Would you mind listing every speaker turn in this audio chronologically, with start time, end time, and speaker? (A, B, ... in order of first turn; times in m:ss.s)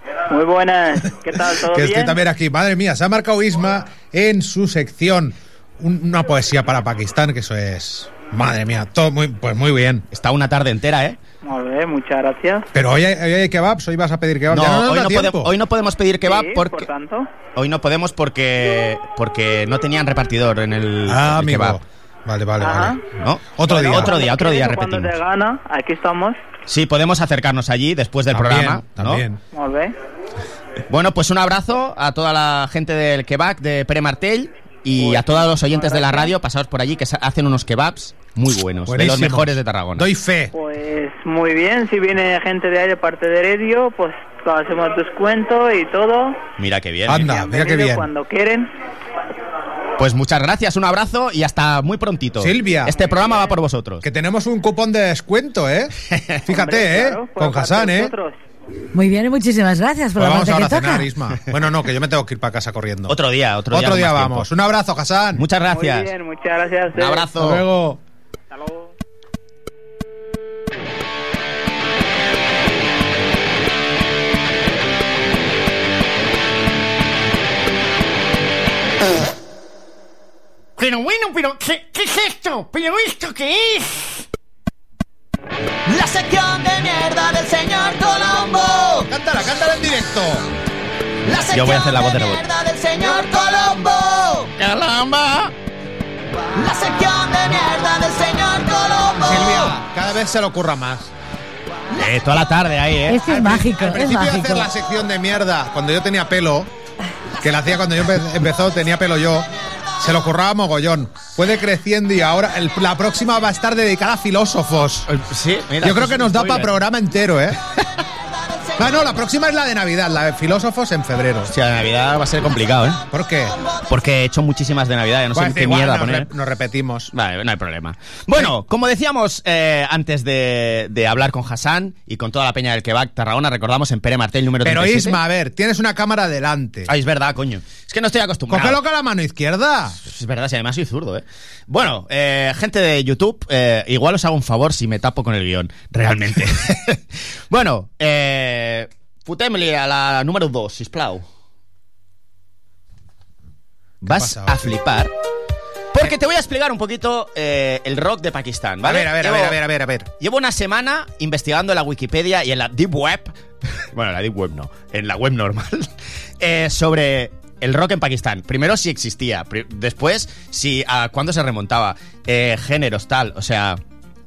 0:00.3-0:02.2 A
0:01.6-0:10.0 B
0:10.1-0:11.2 C
0:11.4-0:12.7 A
0:12.7-0:15.5 B
0:14.5-0:16.9 C
0:16.2-0:17.3 A
0:17.6-0:21.8 C
0:21.1-0:23.0 B
0:22.6-0:23.0 A
0:23.1-0:25.1 C
0:23.6-0:24.1 B
0:23.6-0:26.4 A
0:26.7-0:29.2 C
0:28.3-0:29.4 B
0:29.5-0:29.9 A
0:30.9-0:40.1 C
0:35.0-0:36.3 A
0:38.9-0:40.5 B
0:40.5-0:46.4 A
0:46.6-0:47.3 C
0:47.1-0:48.1 B
0:47.1-0:48.7 A
0:50.0-0:54.0 C
0:52.4-0:52.9 B
0:54.0-0:55.9 B
0:56.1-0:56.5 C
0:56.5-0:58.1 B
0:56.5-0:58.3 A
0:58.9-1:01.1 D
1:00.2-1:03.2 B
1:03.1-1:04.5 C
1:03.7-1:05.4 B
1:05.4-1:06.1 C
1:05.7-1:07.3 A
1:06.9-1:07.6 C
1:07.4-1:08.0 B
1:08.5-1:08.9 A
1:20.8-1:24.0 C
1:25.9-1:29.0 E
1:29.0-1:30.5 B
1:31.3-1:32.5 C
1:31.3-1:34.5 E
1:34.6-1:35.5 C
1:36.5-1:39.6 E
1:39.1-1:41.1 B
1:41.9-1:43.4 C
1:43.1-1:44.7 D
1:43.3-1:46.7 B
1:47.4-1:49.5 B
1:50.0-1:55.1 B
1:55.1-1:56.7 C
1:55.8-1:57.6 B
1:58.8-2:01.5 B
2:01.5-2:03.0 C
2:03.1-2:03.6 B
2:03.9-2:06.3 C
2:05.3-2:07.1 B
2:07.1-2:15.2 C
2:14.6-2:16.9 B
2:16.9-2:18.8 C
2:18.5-2:20.0 B
2:20.0-2:31.2 C
2:34.0-2:34.7 B
2:34.0-2:35.1 C
2:35.9-2:39.6 C
2:38.8-2:40.1 B
2:40.2-2:43.3 C
2:43.9-2:45.9 C
2:46.4-2:53.8 C